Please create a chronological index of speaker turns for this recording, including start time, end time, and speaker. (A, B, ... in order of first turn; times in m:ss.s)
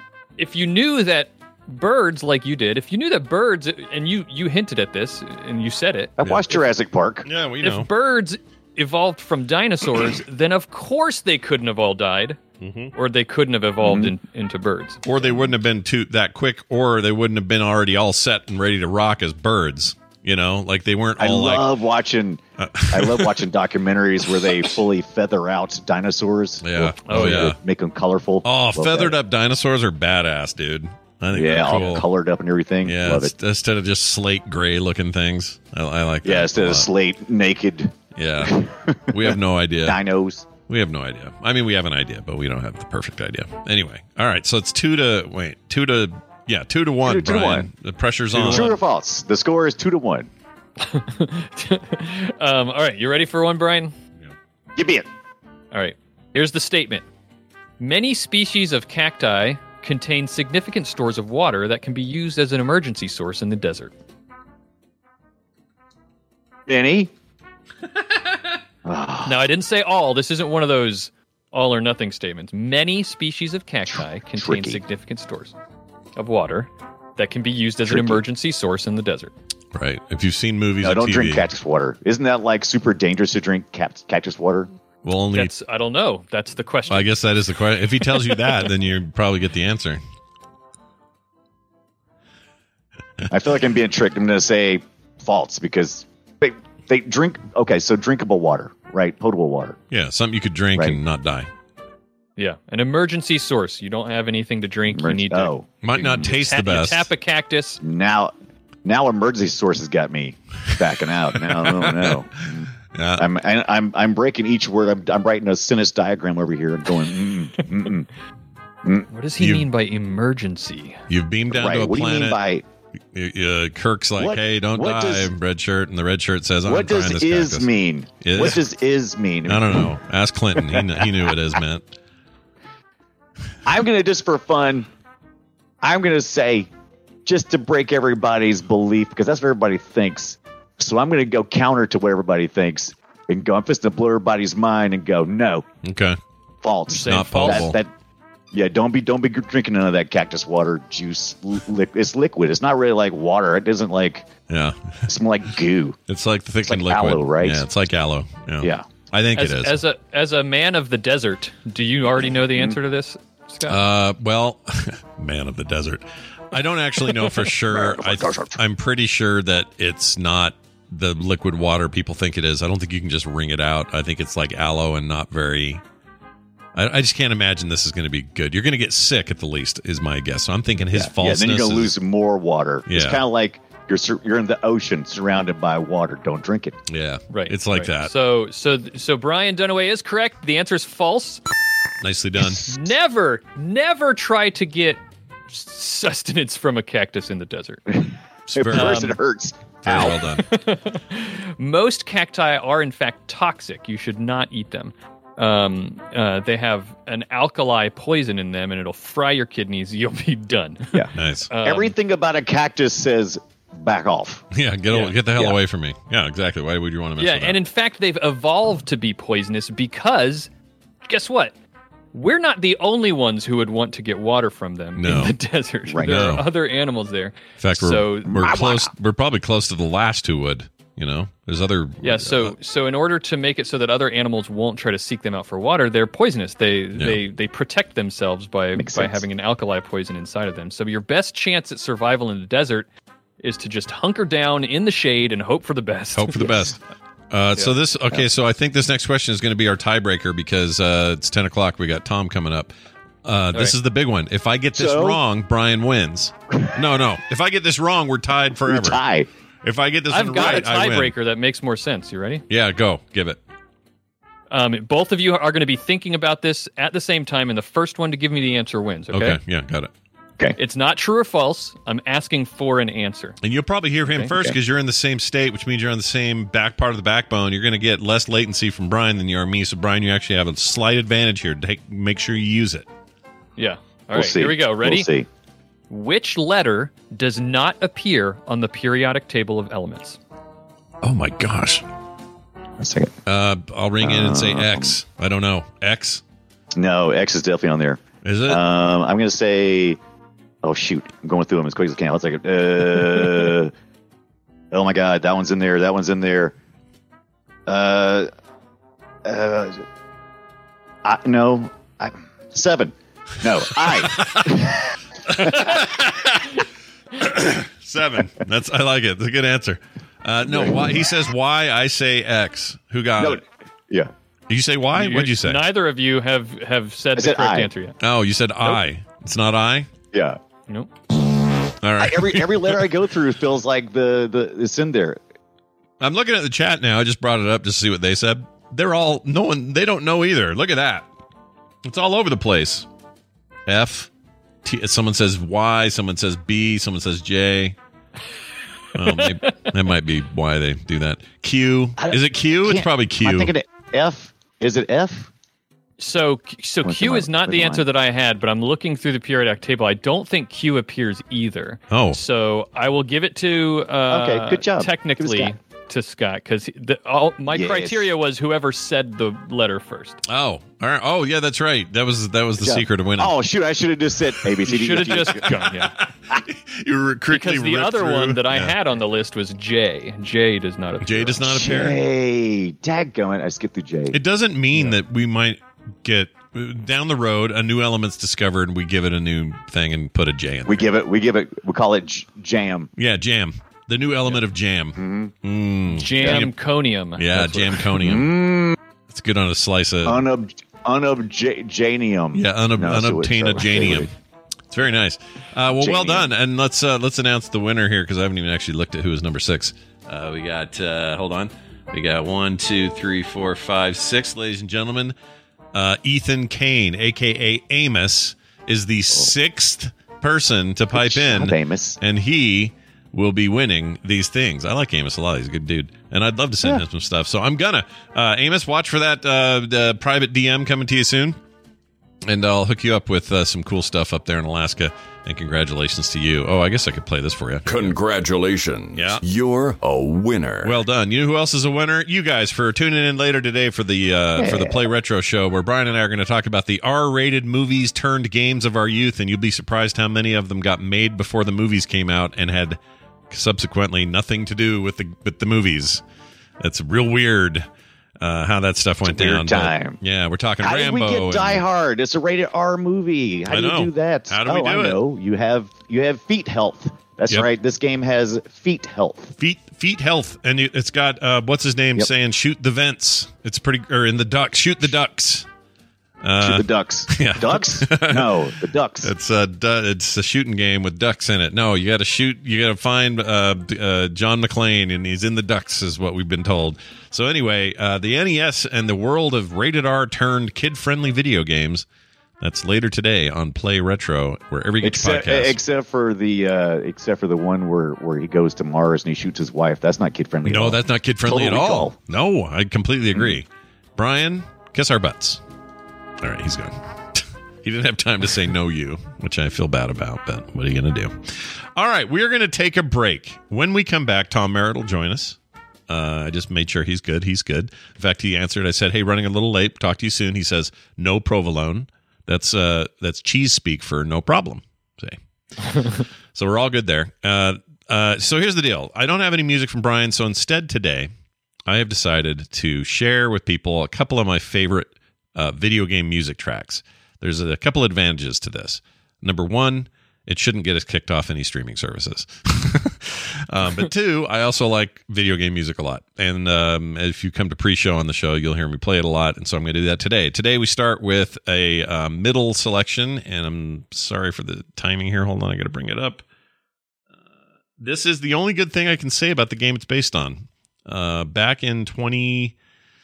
0:00.4-0:06.7 A
0:06.2-0:07.3 B
0:07.2-0:07.9 C
0:07.6-0:12.4 A
0:12.6-0:12.9 C
0:13.0-0:15.4 A
0:13.8-0:14.1 B
0:15.0-0:21.7 C
0:21.2-0:29.2 B
0:22.6-0:23.4 C
0:26.6-0:27.6 C
0:27.1-0:27.5 A
0:28.4-0:32.1 C
0:31.3-0:33.3 B
0:32.8-0:36.9 C
0:36.2-0:40.5 B
0:38.1-0:38.5 C
0:39.1-0:40.0 C
0:40.6-0:48.8 C
0:47.0-0:47.7 B
0:48.3-0:50.3 B
0:48.5-0:48.8 A
0:50.8-0:53.9 A
0:54.8-0:55.1 B
0:55.7-0:57.0 A
0:57.8-1:03.9 A
1:06.7-1:07.1 B
1:08.8-1:09.4 B
1:09.2-1:15.6 A
1:13.9-1:14.8 B
1:16.2-1:19.3 A
1:17.8-1:18.2 B
1:19.7-1:21.4 C
1:20.8-1:24.7 B
1:25.0-1:25.5 C
1:25.3-1:27.1 A
1:26.9-1:30.0 C
1:33.3-1:39.8 B
1:39.9-1:41.5 C
1:40.7-1:41.0 B
1:42.4-1:45.5 A
1:44.9-1:46.3 B
1:45.8-1:47.1 C
1:46.1-1:47.8 A
1:47.8-1:48.3 B
1:48.8-1:58.1 B
1:51.4-1:52.2 C
1:52.8-1:53.3 C
1:57.6-1:57.9 A
1:59.1-2:01.0 A
1:59.4-1:59.6 C
2:01.1-2:02.4 C
2:01.5-2:02.6 B
2:03.1-2:08.6 C
2:04.2-2:05.3 B
2:06.6-2:09.9 B
2:09.4-2:11.9 C
2:10.6-2:11.0 B
2:13.6-2:14.9 B
2:15.8-2:16.7 B
2:17.2-2:25.6 B
2:25.8-2:26.2 C
2:26.6-2:27.9 B
2:26.9-2:27.7 A
2:27.0-2:27.8 C
2:28.5-2:34.3 B
2:34.5-2:35.0 C
2:35.1-2:36.0 B
2:36.1-2:39.8 C
2:36.6-2:37.7 B
2:38.6-2:38.8 B
2:39.3-2:43.8 A
2:42.2-2:42.8 B
2:43.6-2:55.8 C
2:47.7-2:48.6 B
2:56.7-3:01.9 C
3:00.9-3:06.8 B
3:02.8-3:03.2 C
3:06.9-3:08.1 C
3:07.3-3:11.4 A
3:12.0-3:12.6 C
3:12.6-3:17.8 A
3:17.9-3:20.2 B
3:18.5-3:19.2 C
3:18.7-3:19.2 A
3:19.8-3:20.4 C
3:20.4-3:32.0 A
3:31.1-3:31.5 C
3:31.6-3:34.4 B
3:34.5-3:37.6 C
3:34.9-3:35.2 A
3:37.2-3:40.5 A
3:41.1-3:41.5 A
3:42.1-3:48.6 A
3:45.0-3:45.4 C
3:45.9-3:46.3 B
3:46.0-3:46.4 C
3:47.6-3:52.5 C
3:48.3-3:48.9 B
3:52.0-4:02.9 A
3:57.0-3:57.2 C
3:58.8-3:59.2 B
4:03.4-4:06.7 A
4:06.1-4:06.8 C
4:07.3-4:19.0 C
4:14.7-4:15.2 B
4:18.6-4:19.3 B
4:19.6-4:21.1 C
4:20.1-4:22.4 A
4:20.4-4:20.6 B
4:22.5-4:23.4 C
4:24.5-4:29.4 A
4:29.1-4:29.9 C
4:30.6-4:33.4 A
4:33.4-4:42.9 C
4:43.6-4:45.1 A
4:44.1-4:45.2 B
4:45.9-4:50.2 A
4:51.0-4:51.8 C
4:52.8-4:53.1 B
4:53.2-4:56.2 C
4:54.0-4:55.0 B
4:56.8-5:00.0 B
4:58.2-4:58.6 C
5:00.6-5:03.7 B
5:04.7-5:06.5 B
5:07.7-5:08.3 B
5:09.2-5:09.8 B
5:11.0-5:14.8 B
5:13.8-5:14.5 C
5:15.3-5:16.6 C
5:15.4-5:15.9 A
5:17.2-5:23.4 C
5:20.5-5:21.1 B
5:23.2-5:24.1 B
5:24.5-5:25.6 C
5:24.9-5:28.0 A
5:27.2-5:27.7 B
5:28.0-5:29.9 C
5:30.1-5:30.4 B
5:31.8-5:32.9 C
5:32.0-5:35.2 B
5:36.0-5:41.1 C
5:41.8-5:42.9 C
5:43.6-5:44.1 C
5:44.6-5:47.8 C
5:48.9-5:53.5 C
5:52.0-5:55.3 B
5:56.0-6:10.2 A
5:56.8-5:57.8 B
6:01.9-6:02.2 C
6:04.1-6:05.5 B
6:07.5-6:08.1 B
6:10.2-6:13.4 C
6:12.6-6:15.6 B
6:14.6-6:15.9 A
6:14.8-6:18.7 C
6:17.3-6:21.7 A
6:21.0-6:22.0 C
6:21.4-6:24.2 B
6:24.1-6:30.9 C
6:30.6-6:32.9 B
6:33.0-6:36.5 C
6:35.0-6:35.3 B
6:35.9-6:37.8 A
6:37.2-6:38.3 C
6:37.9-6:38.8 B
6:39.1-6:40.2 C
6:40.0-6:44.1 B
6:42.3-6:44.1 C
6:44.7-6:55.1 C
6:45.8-6:46.3 B
6:55.7-7:11.4 C
7:00.9-7:02.0 B
7:12.2-7:18.0 C
7:17.6-7:20.8 D
7:18.9-7:19.2 C
7:20.6-7:36.0 C
7:24.4-7:24.7 B
7:36.6-7:37.7 C
7:38.2-7:41.7 C
7:39.0-7:40.0 B
7:40.6-7:49.3 B
7:43.5-7:45.0 C
7:49.4-7:55.5 C
7:56.2-8:11.8 C
7:56.4-7:59.1 B
8:12.4-8:15.6 C
8:14.8-8:21.9 B
8:20.4-8:25.4 C
8:26.2-8:35.4 C
8:35.9-8:45.2 C
8:45.6-8:46.0 A
8:46.3-8:51.1 C
8:51.7-9:16.2 C
9:17.8-9:22.5 C